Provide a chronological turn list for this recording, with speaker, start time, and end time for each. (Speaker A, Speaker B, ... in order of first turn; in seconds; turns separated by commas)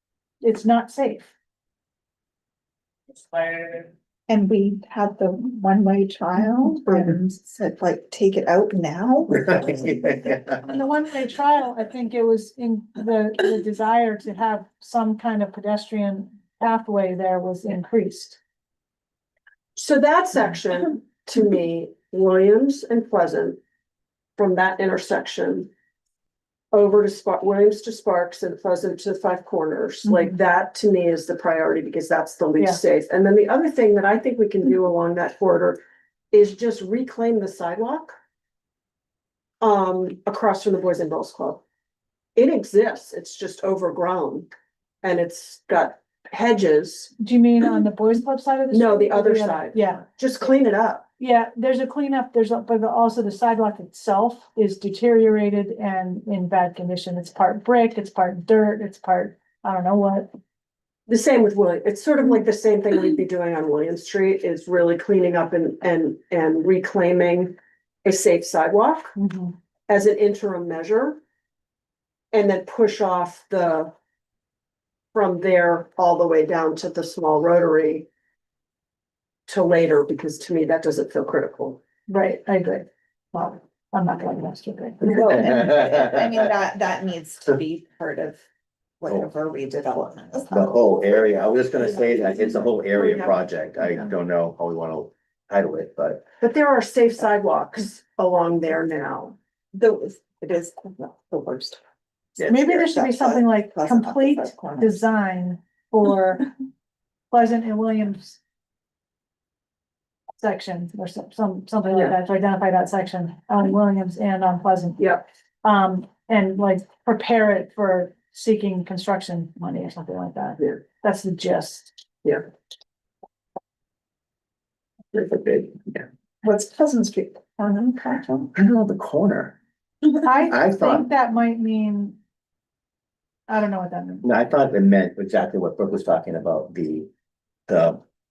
Speaker A: 0.4-1.3, Speaker B: 4.3-9.9, Speaker C: 9.3-10.6, Speaker A: 10.7-18.4, Speaker D: 19.8-23.6, Speaker D: 24.4-25.7, Speaker D: 26.7-35.8, Speaker D: 36.3-38.1, Speaker D: 39.6-41.6, Speaker D: 42.4-44.5, Speaker D: 45.0-47.1, Speaker A: 47.2-50.0, Speaker D: 48.7-51.0, Speaker A: 51.2-60.3, Speaker D: 61.1-69.1, Speaker A: 69.2-69.5, Speaker D: 69.9-71.2, Speaker D: 72.3-73.9, Speaker D: 75.1-78.1, Speaker D: 79.5-81.8, Speaker A: 82.1-85.3, Speaker C: 85.0-86.4, Speaker B: 85.1-88.4, Speaker B: 89.0-90.7, Speaker C: 90.5-96.2, Speaker D: 92.9-93.4, Speaker D: 96.4-99.4, Speaker B: 99.7-101.8, Speaker C: 102.4-102.7, Speaker A: 102.5-106.5, Speaker B: 102.7-105.0, Speaker A: 107.3-108.4, Speaker A: 110.4-115.1, Speaker A: 115.6-122.0, Speaker C: 125.1-126.0, Speaker B: 126.4-128.5, Speaker C: 128.6-129.6, Speaker A: 130.2-132.2, Speaker C: 130.5-131.1, Speaker A: 133.5-134.2, Speaker C: 134.2-137.1, Speaker C: 137.7-138.0